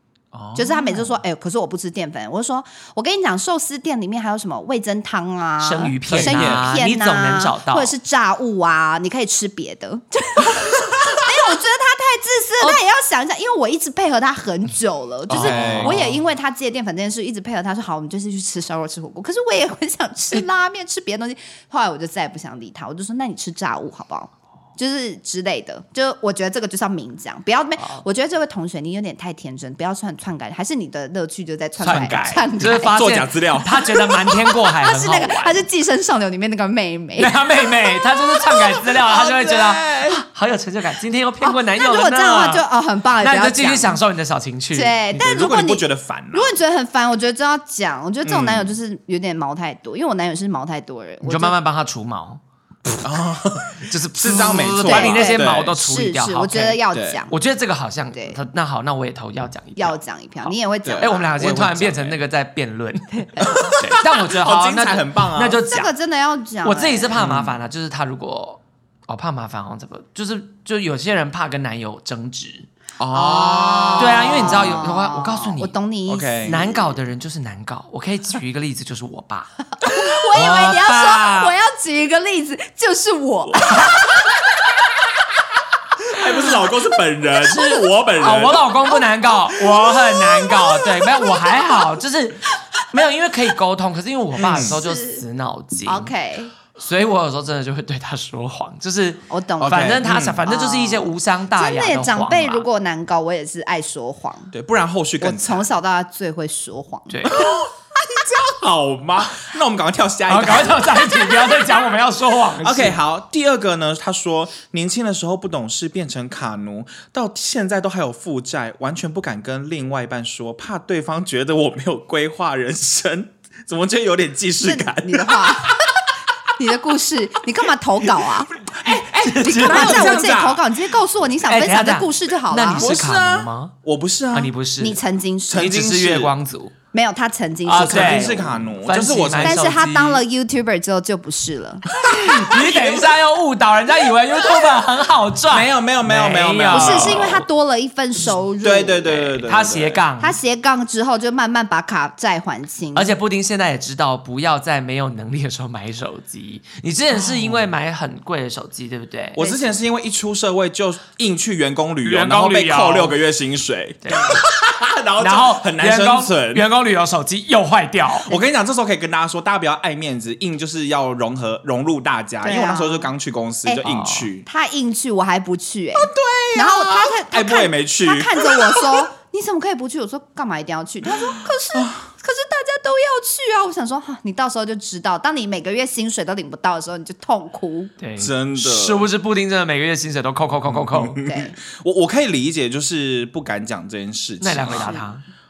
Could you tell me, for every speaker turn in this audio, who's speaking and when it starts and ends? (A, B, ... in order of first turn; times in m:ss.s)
0:00.3-0:01.2 A
0:00.6-0:33.1 B
0:05.6-0:07.9 C
0:06.1-0:06.7 A
0:15.3-0:16.0 A
0:15.3-0:16.2 C
0:27.8-0:28.0 C
0:31.8-0:35.6 C
0:32.9-0:34.0 A
0:33.9-0:38.7 B
0:37.2-0:42.6 C
0:39.0-0:40.2 A
0:41.4-0:44.0 B
0:43.2-0:44.9 C
0:44.7-0:51.6 B
0:45.1-0:46.6 A
0:48.2-0:48.7 A
0:51.2-0:52.4 C
0:53.0-0:55.8 A
0:53.8-1:05.9 C
0:54.8-0:57.4 B
0:56.9-0:57.2 A
0:58.1-0:58.4 B
0:59.8-1:01.3 B
1:00.8-1:02.2 A
1:03.4-1:03.8 B
1:03.5-1:05.6 A
1:05.7-1:07.2 B
1:06.6-1:12.7 C
1:07.2-1:07.6 A
1:13.0-1:14.8 A
1:13.1-1:16.7 B
1:14.0-1:15.7 C
1:16.1-1:16.8 A
1:16.5-1:19.6 C
1:19.8-1:20.1 A
1:19.9-1:24.0 B
1:20.3-1:21.5 C
1:23.6-1:24.1 A
1:26.0-1:28.7 A
1:27.5-1:36.1 C
1:34.4-1:34.8 A
1:34.4-1:35.2 B
1:35.8-1:36.5 B
1:36.7-1:42.7 C
1:39.3-1:44.5 B
1:39.6-1:40.4 A
1:44.5-1:45.7 A
1:45.2-1:47.6 B
1:47.1-1:47.4 C
1:47.3-1:51.3 A
1:50.3-1:53.0 C
1:52.6-2:06.0 A
2:04.6-2:05.8 B
2:06.6-2:08.6 B
2:08.6-2:10.7 A
2:09.0-2:10.2 C
2:09.4-2:12.9 B
2:11.4-2:13.7 C
2:12.7-2:14.5 A
2:14.3-2:15.0 C
2:14.8-2:15.7 B
2:15.5-2:16.3 A
2:15.6-2:16.8 C
2:16.9-2:18.5 B
2:17.7-2:20.2 C
2:17.8-2:19.6 A
2:19.4-2:21.8 B
2:22.0-2:23.1 A
2:22.0-2:27.5 C
2:25.5-2:27.4 A
2:26.7-2:29.5 B
2:28.6-2:30.0 A
2:29.5-2:30.4 C
2:30.2-2:33.2 B
2:33.0-2:39.5 C
2:37.3-2:37.6 A
2:39.4-2:46.6 A
2:39.4-2:39.7 B
2:42.0-2:43.2 C
2:44.0-2:44.4 C
2:44.1-2:44.4 B
2:45.2-2:48.3 C
2:48.3-2:54.5 A
2:52.4-2:53.1 B
2:53.8-2:54.3 C
2:54.4-3:07.9 B
2:56.0-2:59.0 A
3:01.3-3:02.1 A
3:08.0-3:11.2 C
3:08.2-3:09.1 A
3:10.6-3:15.0 A
3:11.2-3:11.6 B
3:14.4-3:15.2 C
3:14.7-3:15.1 B